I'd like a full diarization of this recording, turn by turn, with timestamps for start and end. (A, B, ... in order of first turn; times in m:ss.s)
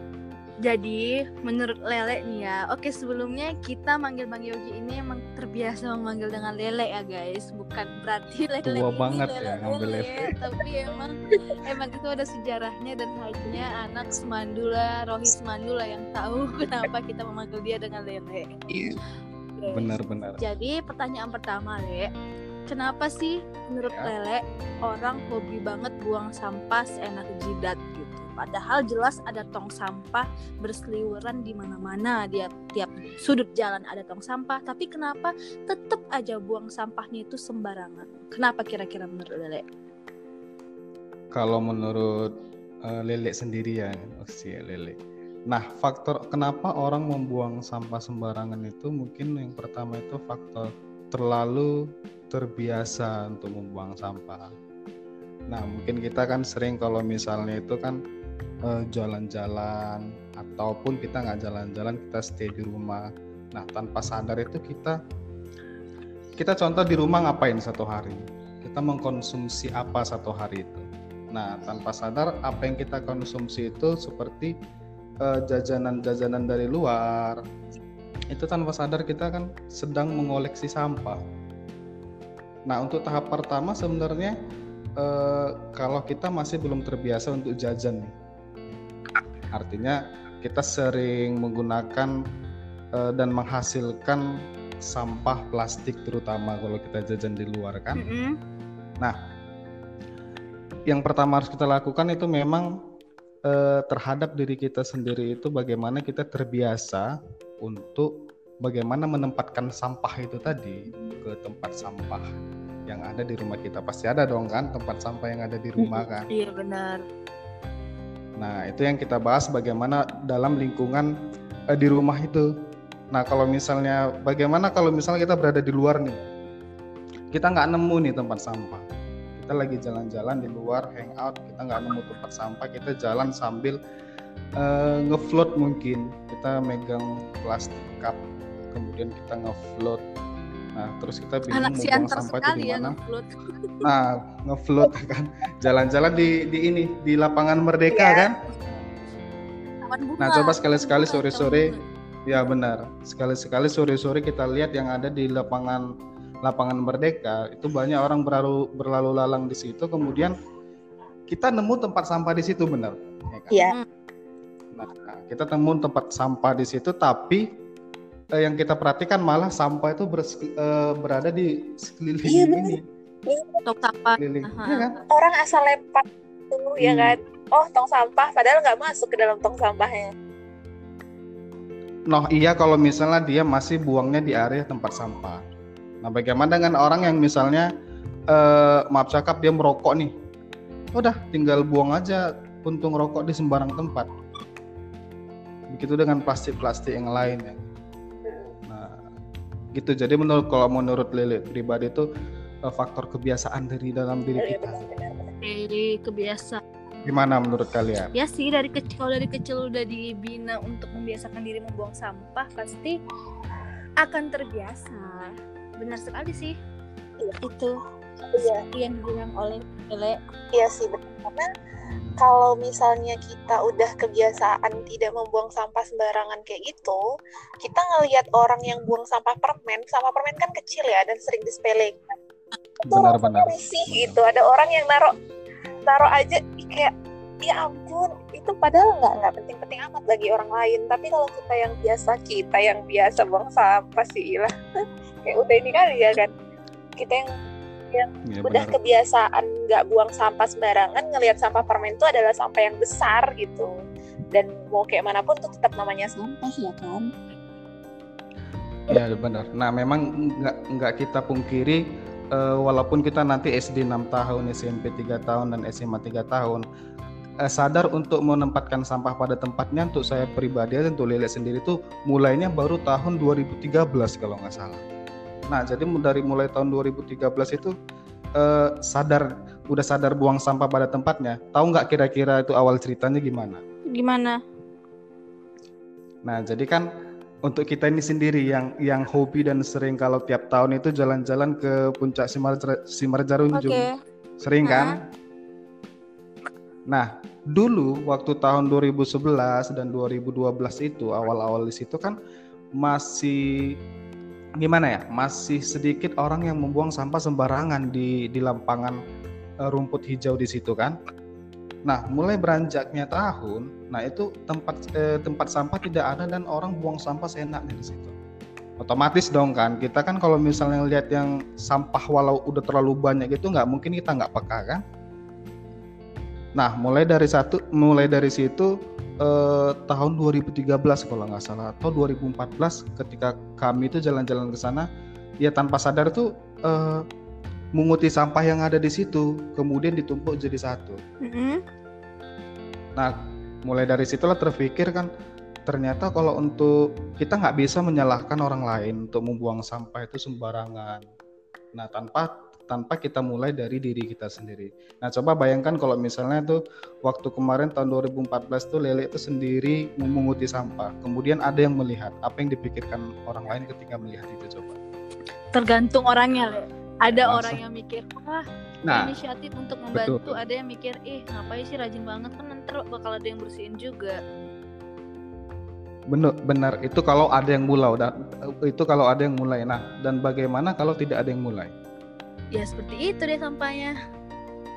0:00.6-0:18.7 A
0:08.6-0:10.3 B
0:18.7-0:19.0 C
0:19.6-0:22.1 A
0:19.7-0:20.4 B
0:22.7-0:39.6 A
0:23.9-0:24.1 B
0:41.3-0:42.3 B
0:42.8-0:51.7 B
0:52.3-0:54.5 B
0:55.5-0:58.0 B
0:58.7-1:05.0 B
1:06.4-1:14.5 B
1:15.2-1:17.4 B
1:18.3-1:21.2 B
1:22.7-1:24.4 B
1:25.0-1:28.1 B
1:29.5-1:32.1 B
1:33.0-1:34.2 B
1:34.8-1:38.0 B
1:38.0-1:38.4 A
1:40.9-1:42.7 B
1:43.5-1:47.1 B
1:47.6-1:48.1 B
1:48.6-1:52.3 B
1:52.9-1:56.3 B
1:55.8-1:56.1 C
1:56.3-1:57.0 A
1:58.4-2:01.1 B
2:01.7-2:02.5 B
2:03.1-2:06.2 B
2:07.3-2:08.8 B
2:09.4-2:13.8 B
2:14.6-2:20.0 B
2:20.8-2:23.0 B
2:21.5-2:23.3 A
2:23.8-2:28.9 B
2:27.9-2:28.3 C
2:29.8-2:31.8 A
2:30.2-2:35.9 B
2:36.4-2:40.3 B
2:41.3-2:43.6 B
2:43.6-2:43.8 A
2:44.7-2:47.4 B
2:48.4-2:52.8 B
2:52.3-2:53.6 C
2:53.6-2:54.9 A
2:54.2-2:55.0 B
2:55.1-3:00.1 C
2:56.8-2:57.2 B
3:02.1-3:05.4 B
3:06.0-3:07.7 B
3:08.3-3:10.1 B
3:11.0-3:14.1 B
3:15.7-3:17.7 B
3:18.7-3:19.0 B
3:19.8-3:22.0 B
3:22.7-3:24.8 B
3:24.4-3:25.3 C
3:25.4-3:26.6 A
3:27.0-3:28.1 B
3:28.2-3:33.0 A
3:34.0-3:36.6 A
3:37.4-3:37.8 A
3:38.3-3:38.6 C
3:38.7-3:40.2 A
3:40.5-3:41.5 C
3:41.8-3:42.2 B
3:42.2-3:47.0 C
3:47.6-3:52.2 C
3:52.8-3:55.1 C
3:52.9-3:54.2 B
3:55.9-4:04.5 C
4:05.2-4:06.3 C
4:07.0-4:07.2 C
4:07.9-4:13.7 C
4:08.3-4:09.0 B
4:14.3-4:17.1 C
4:18.9-4:21.8 B
4:22.3-4:26.6 B
4:27.4-4:34.8 B
4:35.5-4:37.7 B
4:38.4-4:43.6 B
4:43.9-4:44.4 A
4:46.3-4:46.8 B
4:47.5-4:53.8 B
4:53.5-4:53.9 A
4:54.4-4:55.0 B
4:54.6-4:55.0 A
4:56.9-5:02.2 B
5:02.8-5:03.4 B
5:04.6-5:09.0 B
5:09.7-5:11.0 B
5:11.9-5:18.1 B
5:18.8-5:24.8 B
5:26.6-5:28.7 B
5:29.2-5:34.9 B
5:35.4-5:37.0 B
5:37.8-5:41.0 B
5:41.2-5:41.6 A
5:43.0-5:45.1 B
5:45.7-5:51.0 B
5:51.8-6:04.8 B
6:05.5-6:14.2 A
6:07.1-6:07.6 B
6:08.9-6:09.1 B
6:09.9-6:10.4 B
6:16.1-6:18.1 B
6:18.6-6:21.7 B
6:22.6-6:23.9 A